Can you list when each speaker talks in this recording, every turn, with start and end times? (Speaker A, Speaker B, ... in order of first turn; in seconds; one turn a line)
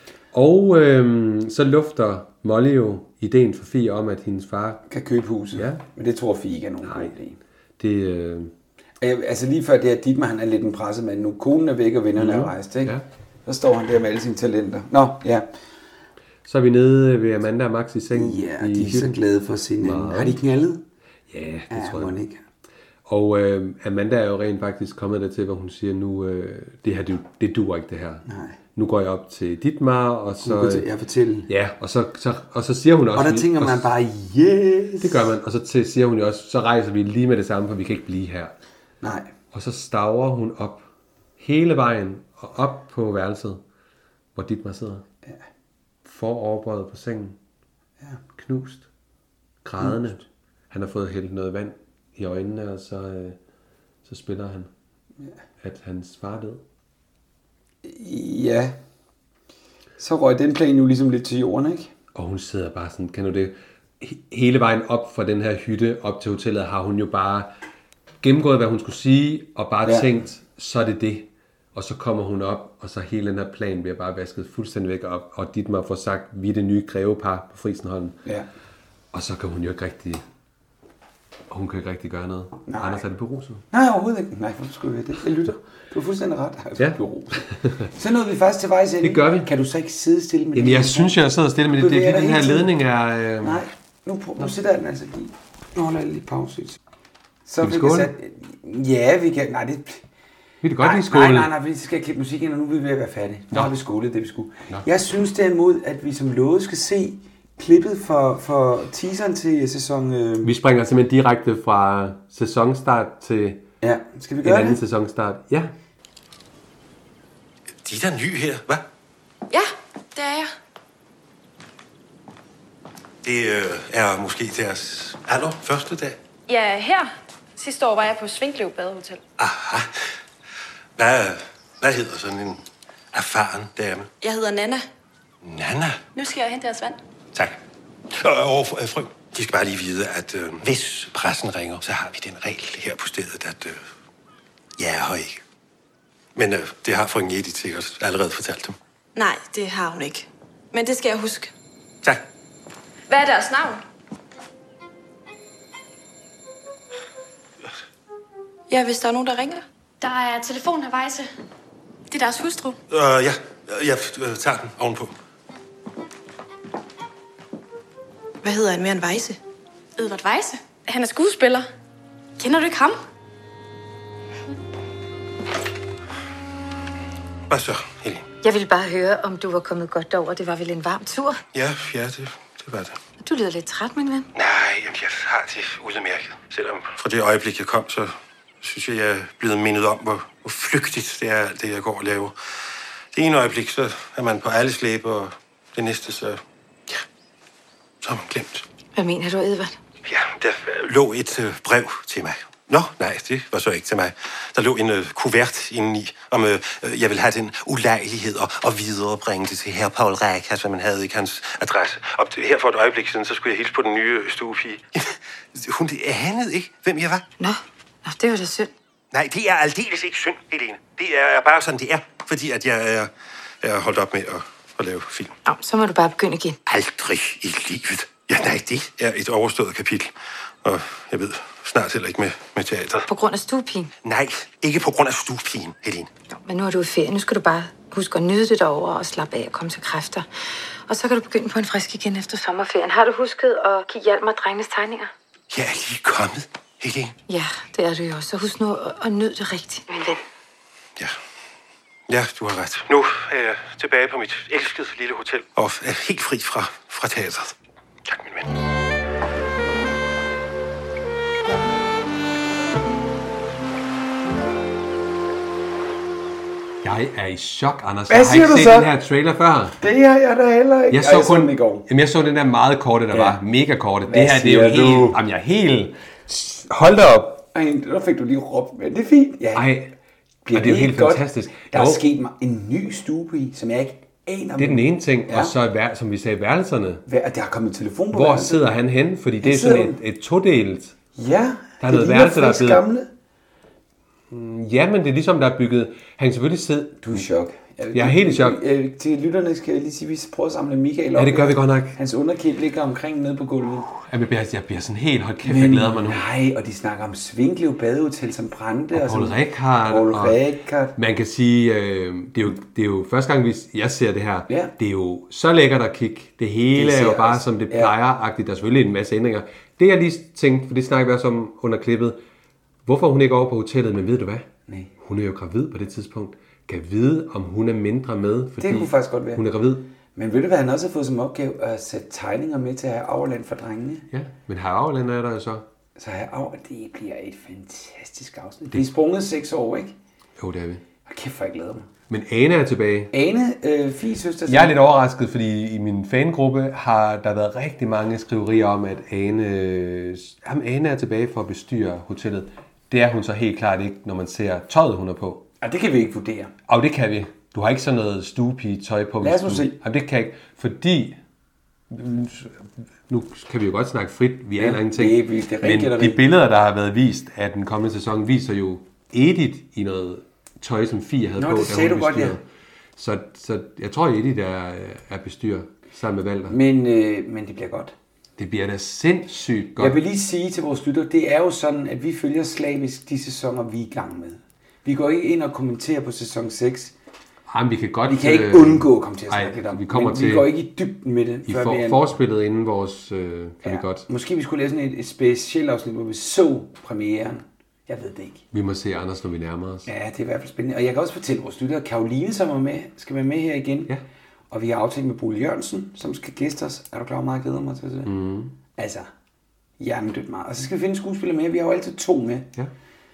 Speaker A: 0.3-4.8
Speaker B: 4.9-7.4
Speaker A: 5.5-5.8
Speaker A: 6.8-7.1
Speaker A: 7.8-8.5
Speaker B: 9.0-15.5
Speaker A: 12.2-13.0
Speaker A: 16.4-19.2
Speaker B: 18.1-20.8
Speaker A: 19.8-20.4
Speaker A: 21.3-22.1
Speaker B: 21.7-22.4
Speaker A: 23.1-30.9
Speaker B: 28.3-28.6
Speaker B: 30.4-31.5
Speaker A: 31.5-33.9
Speaker B: 33.1-35.3
Speaker A: 35.0-38.5
Speaker B: 39.0-39.3
Speaker A: 39.5-40.9
Speaker A: 41.4-43.6
Speaker A: 44.3-45.0
Speaker A: 46.0-47.4
Speaker A: 48.4-48.9
Speaker A: 49.6-53.4
Speaker A: 54.0-54.7
Speaker A: 55.6-56.6
Speaker B: 57.8-58.8
Speaker B: 60.0-61.9
Speaker A: 62.1-67.5
Speaker A: 68.2-78.2
Speaker B: 69.8-70.1
Speaker A: 79.1-80.2
Speaker A: 81.5-83.6
Speaker B: 82.7-83.0
Speaker B: 83.7-87.4
Speaker A: 87.5-87.9
Speaker B: 87.9-92.7
Speaker A: 89.0-89.5
Speaker A: 90.5-93.6
Speaker B: 93.4-96.8
Speaker B: 97.5-100.0
Speaker A: 97.6-98.1
Speaker A: 100.6-101.5
Speaker B: 100.8-110.5
Speaker A: 110.4-113.6
Speaker B: 113.8-114.8
Speaker A: 114.4-115.7
Speaker C: 117.8-118.8
Speaker D: 119.5-120.5
Speaker C: 123.2-126.2
Speaker D: 126.5-129.2
Speaker C: 129.4-129.9
Speaker C: 131.0-134.1
Speaker D: 134.2-134.8
Speaker C: 135.4-136.0
Speaker D: 136.1-137.0
Speaker C: 138.1-143.8
Speaker C: 144.8-145.4
Speaker C: 146.3-148.8
Speaker D: 149.2-151.5
Speaker D: 153.1-153.8
Speaker D: 158.7-161.3
Speaker D: 162.1-162.8
Speaker C: 162.9-165.1
Speaker D: 168.4-169.4
Speaker D: 170.0-171.7
Speaker D: 172.4-173.0
Speaker C: 177.5-178.2
Speaker E: 178.4-181.4
Speaker C: 181.5-183.0
Speaker E: 183.2-184.3
Speaker C: 184.3-192.3
Speaker C: 193.1-197.0
Speaker C: 198.0-198.6
Speaker E: 198.9-199.8
Speaker C: 200.0-217.2
Speaker E: 217.4-218.7
Speaker C: 219.1-223.1
Speaker C: 223.6-225.3
Speaker E: 225.4-226.6
Speaker C: 226.7-233.0
Speaker E: 233.1-233.9
Speaker C: 234.0-236.1
Speaker E: 236.3-240.2
Speaker E: 240.9-245.1
Speaker C: 245.5-247.1
Speaker E: 247.3-250.2
Speaker C: 252.1-257.5
Speaker C: 258.1-258.5
Speaker A: 266.8-269.8
Speaker B: 268.1-268.9
Speaker B: 269.8-271.9
Speaker A: 270.9-277.4
Speaker B: 273.1-273.4
Speaker B: 274.1-275.2
Speaker B: 277.5-279.7
Speaker A: 279.5-279.9
Speaker B: 280.4-285.5
Speaker A: 280.5-282.0
Speaker A: 284.6-287.0
Speaker B: 287.1-288.7
Speaker A: 288.1-290.9
Speaker B: 289.4-290.0
Speaker B: 291.1-293.1
Speaker A: 291.8-292.8
Speaker A: 294.3-297.2
Speaker B: 297.0-303.9
Speaker A: 297.9-298.6
Speaker A: 301.1-302.0
Speaker A: 304.0-306.2
Speaker B: 305.4-310.9
Speaker A: 308.9-310.4
Speaker A: 310.9-322.2
Speaker B: 316.7-317.9
Speaker A: 322.8-324.5
Speaker A: 325.0-329.9
Speaker B: 328.6-329.4
Speaker B: 330.1-334.1
Speaker A: 334.1-335.6
Speaker B: 335.9-339.9
Speaker A: 340.4-340.8
Speaker B: 341.1-341.9
Speaker A: 342.1-343.1
Speaker B: 343.1-344.8
Speaker A: 344.4-355.4
Speaker B: 355.6-356.5
Speaker A: 356.7-361.2
Speaker B: 359.2-359.8
Speaker A: 361.9-372.4
Speaker B: 364.6-366.2
Speaker B: 371.4-372.4
Speaker A: 373.0-376.6
Speaker B: 376.5-377.9
Speaker A: 378.4-380.0
Speaker B: 379.8-386.9
Speaker A: 387.5-390.5
Speaker B: 388.0-392.0
Speaker A: 391.5-394.1
Speaker B: 393.6-398.4
Speaker A: 398.5-399.9
Speaker B: 399.9-403.9
Speaker B: 404.5-408.1
Speaker A: 408.1-408.6
Speaker B: 408.8-409.1
Speaker B: 409.8-412.5